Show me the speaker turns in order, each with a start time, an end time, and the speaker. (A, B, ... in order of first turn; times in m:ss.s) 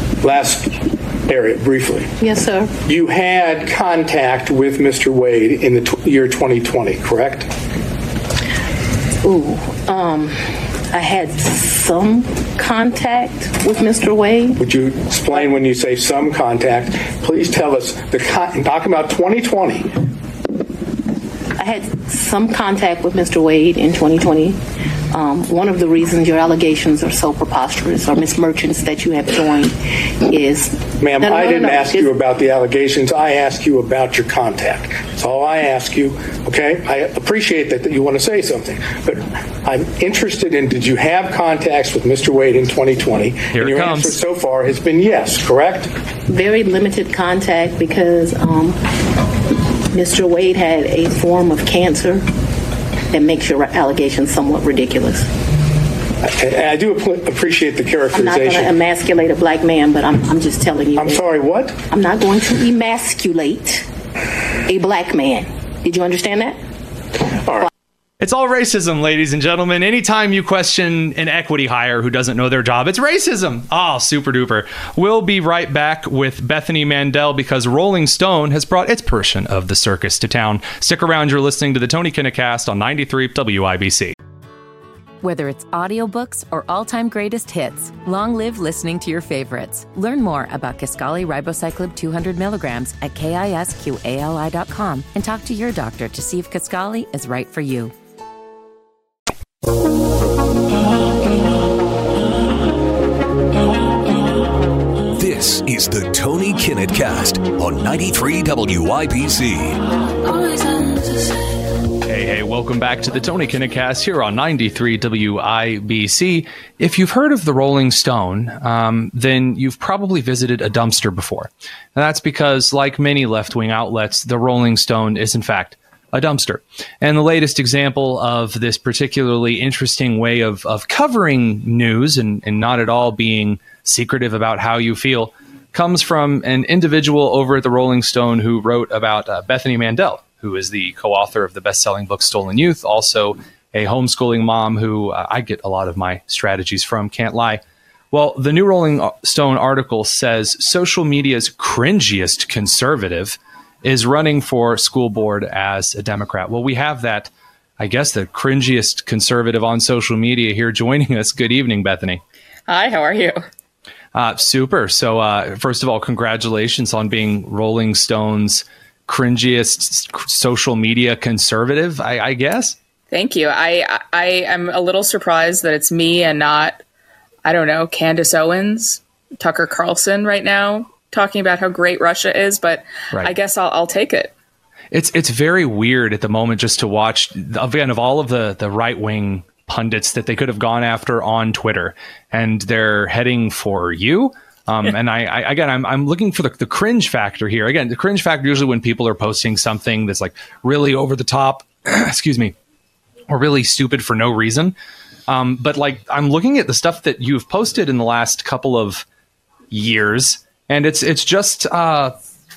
0:00.2-0:02.1 A
0:02.2-0:02.8 B
0:02.8-0:07.5 A
0:09.2-0:14.6 B
0:14.6-0:19.9 A
0:21.6-0:24.6 B
0:25.1-0:32.1 B
0:31.0-0:45.9 A
0:43.5-0:44.2 C
0:46.3-0:48.8 B
0:49.9-0:52.2 B
0:53.1-0:55.3 B
0:56.2-0:58.7 A
0:58.1-1:01.2 B
1:01.0-1:01.8 A
1:01.9-1:03.9 B
1:04.6-1:06.6 B
1:08.2-1:24.1 C
1:25.2-1:37.9 D
1:45.1-1:49.8 E
1:52.0-2:27.6 C
2:28.1-2:42.2 C
2:42.7-2:43.4 F
2:44.1-2:52.8 C
2:53.1-2:56.8 F
2:57.4-3:04.3 F
3:04.9-3:22.5 C
3:23.3-3:24.7 C
3:25.3-3:29.0 C
3:29.7-3:32.1 C